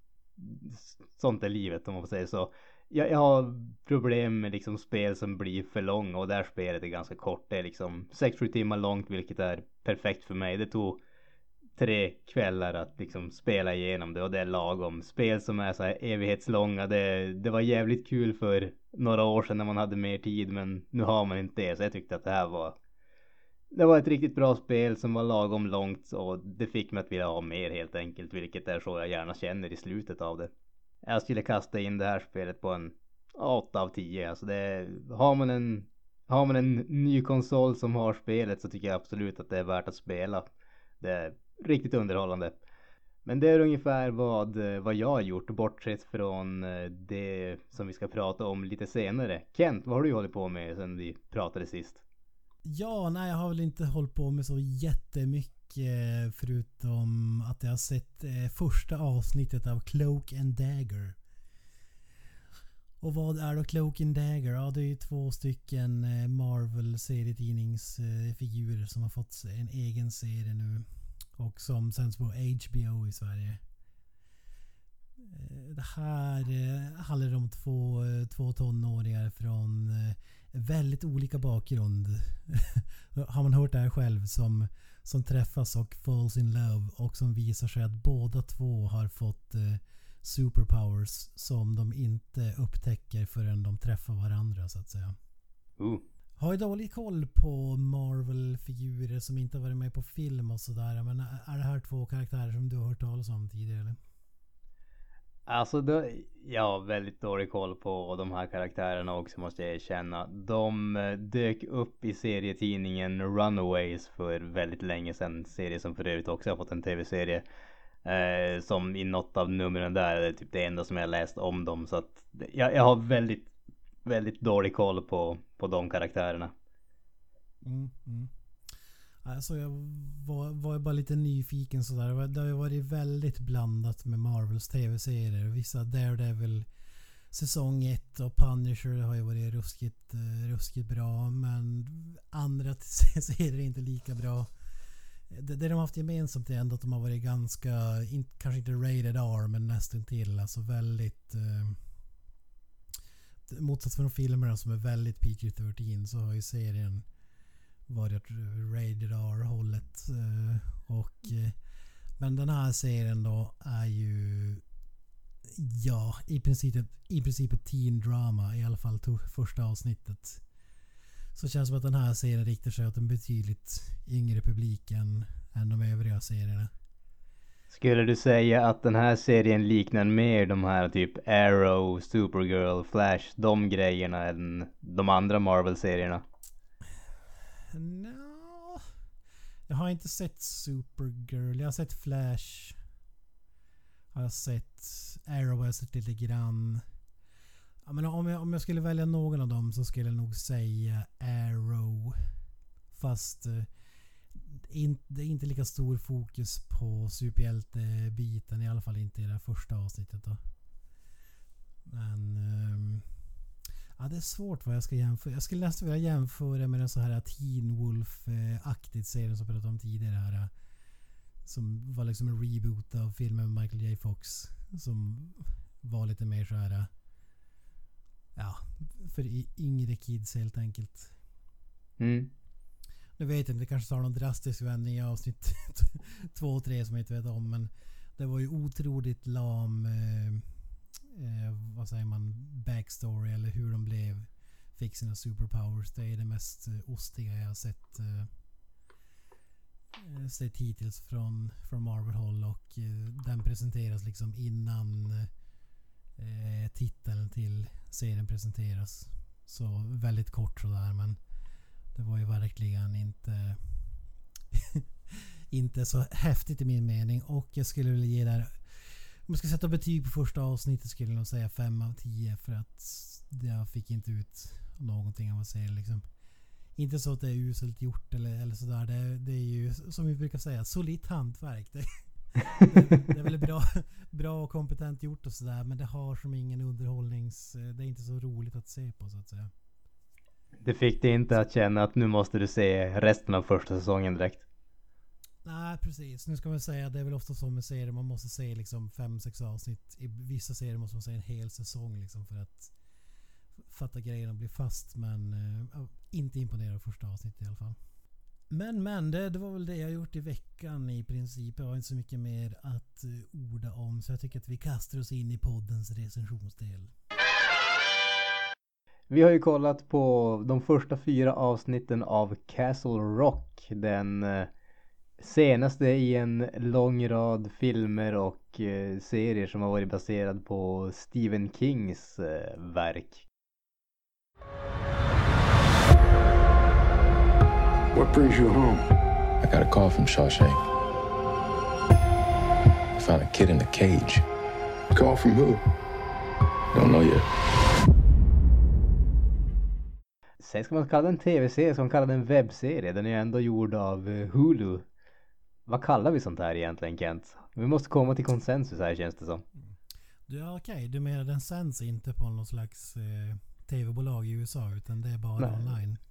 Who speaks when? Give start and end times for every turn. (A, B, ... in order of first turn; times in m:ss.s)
0:00.4-0:11.0 A
0:11.8-0:22.8 A
0:23.7-0:30.5 A
0:31.0-0:40.4 A
0:41.0-0:42.6 A
0:43.2-0:52.0 A
0:52.6-1:01.2 B
1:03.0-1:13.6 B
1:15.2-1:35.2 B
1:35.8-1:36.0 A
1:36.4-1:44.0 B
1:45.5-1:57.4 A
1:58.0-2:03.5 A
2:04.0-2:06.5 A
2:07.6-2:08.3 B
2:09.2-2:16.7 B
2:17.3-2:24.5 B
2:25.3-2:31.8 B
2:33.5-2:37.0 B
2:37.9-2:41.6 B
2:42.2-2:44.6 B
2:45.4-2:50.4 B
2:51.3-2:56.7 B
2:57.7-3:06.2 A
3:07.7-3:08.8 B
3:09.7-3:12.8 B
3:14.1-3:16.8 B
3:17.8-3:22.3 B
3:22.9-3:23.7 B
3:24.3-3:30.4 B
3:31.8-3:33.1 B
3:34.0-3:40.5 B
3:41.4-3:46.9 B
3:48.4-3:51.1 B
3:52.0-3:52.3 A
3:53.2-4:00.5 B
4:01.0-4:08.3 B
4:09.9-4:15.3 B
4:16.2-4:21.2 B
4:21.9-4:24.0 B
4:24.5-4:36.0 B
4:36.8-4:49.5 B
4:50.6-4:54.4 A
4:55.4-5:02.7 B
5:03.6-5:07.8 B
5:08.5-5:16.9 B
5:19.1-5:24.5 A
5:25.2-5:33.2 A
5:37.9-5:38.8 C
5:39.4-5:40.5 D
5:39.6-5:40.4 C
5:43.0-5:44.1 D
5:43.2-5:44.1 C
5:44.9-5:45.6 C
5:46.8-5:47.2 C
5:46.8-5:47.2 D
5:50.4-5:54.9 A
5:55.7-5:59.4 A
6:00.3-6:06.0 B
6:05.4-6:05.7 A